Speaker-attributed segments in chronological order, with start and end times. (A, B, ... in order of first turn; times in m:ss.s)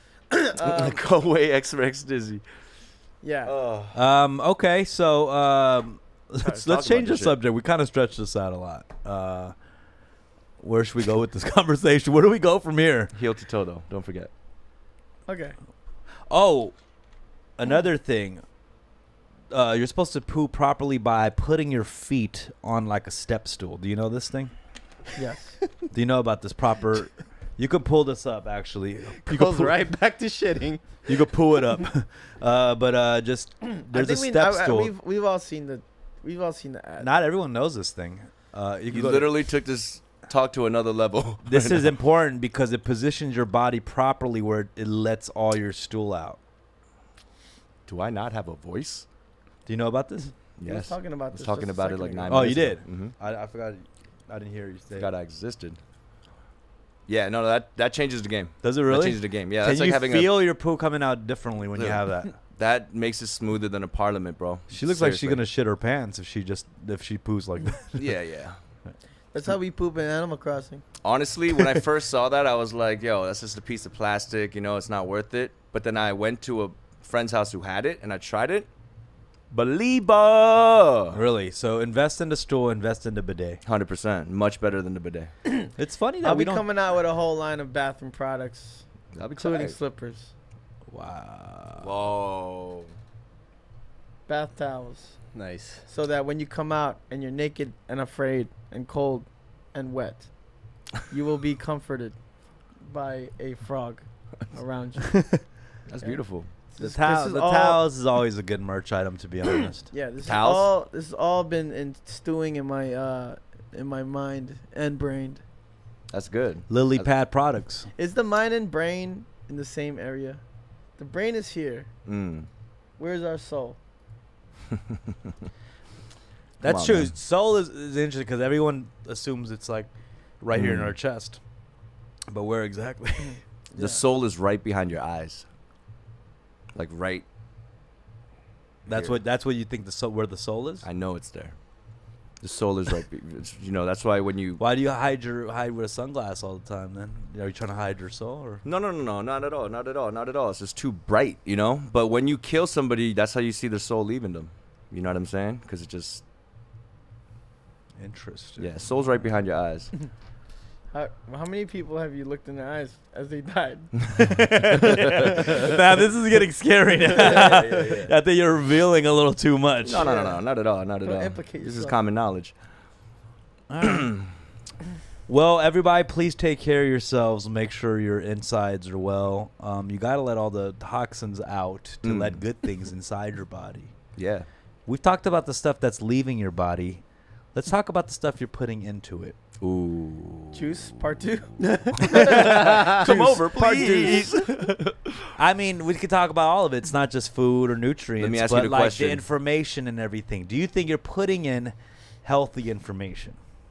0:00.3-0:01.0 A
0:00.6-0:02.4 B
0:03.2-0:03.5 A
0:03.4-0:04.0 B
0:03.9-0:09.6 C
0:06.4-0:07.4 B
0:10.6-0:13.1 C
0:13.1-0:14.3 B
0:15.3-0:15.6 A
0:16.3-0:16.8 C
0:17.6-0:18.4 C
0:19.5-0:24.6 C
0:25.2-0:25.6 A
0:25.9-0:29.7 C
0:29.2-0:31.1 D
0:31.1-0:34.9 C
0:33.8-0:37.1 A
0:37.0-0:39.3 C
0:38.9-0:41.9 B
0:41.4-0:46.4 C
0:47.9-0:49.1 B
0:49.7-0:50.4 C
0:50.6-0:53.1 B
0:50.6-0:52.5 A
0:52.3-0:55.1 C
0:55.0-0:55.8 B
0:57.1-1:00.4 B
0:58.6-1:02.3 C
1:01.8-1:05.4 B
1:04.7-1:08.1 C
1:08.0-1:08.6 B
1:09.3-1:10.8 A
1:11.0-1:18.7 B
1:19.5-1:21.2 B
1:21.1-1:23.6 C
1:23.6-1:25.3 B
1:25.8-1:26.6 C
1:26.2-1:28.9 A
1:29.1-1:29.8 B
1:29.4-1:30.3 A
1:30.9-1:31.9 C
1:31.8-1:32.9 B
1:34.3-1:40.3 A
1:35.3-1:35.9 D
1:41.1-1:42.2 A
1:42.8-1:47.8 A
1:45.9-1:46.5 B
1:46.8-1:49.9 C
1:49.8-1:55.4 A
1:50.2-1:50.7 B
1:56.1-1:57.1 B
1:56.7-1:57.9 C
1:58.0-2:00.4 A
2:01.0-2:01.9 A
2:02.1-2:02.5 B
2:03.0-2:03.8 A
2:06.6-2:11.4 C
2:06.6-2:07.1 B
2:10.5-2:11.0 B
2:12.3-2:13.4 C
2:13.7-2:14.0 A
2:13.8-2:15.5 B
2:16.7-2:17.2 B
2:18.8-2:20.9 C
2:18.9-2:19.2 B
2:20.8-2:21.6 B
2:22.4-2:24.6 B
2:24.6-2:28.6 C
2:28.6-2:36.2 B
2:38.0-2:39.0 C
2:38.6-2:39.9 B
2:40.9-2:44.1 A
2:44.2-2:50.1 C
2:47.1-2:48.1 B
2:49.8-2:52.6 B
2:49.9-2:52.0 A
2:53.7-2:54.2 C
2:55.3-3:03.9 C
3:02.0-3:02.5 B
3:04.2-3:04.5 B
3:04.9-3:09.4 C
3:09.6-3:10.9 B
3:10.5-3:13.1 A
3:12.0-3:15.1 B
3:12.1-3:14.4 C
3:13.7-3:14.3 A
3:15.4-3:23.4 C
3:18.2-3:19.2 B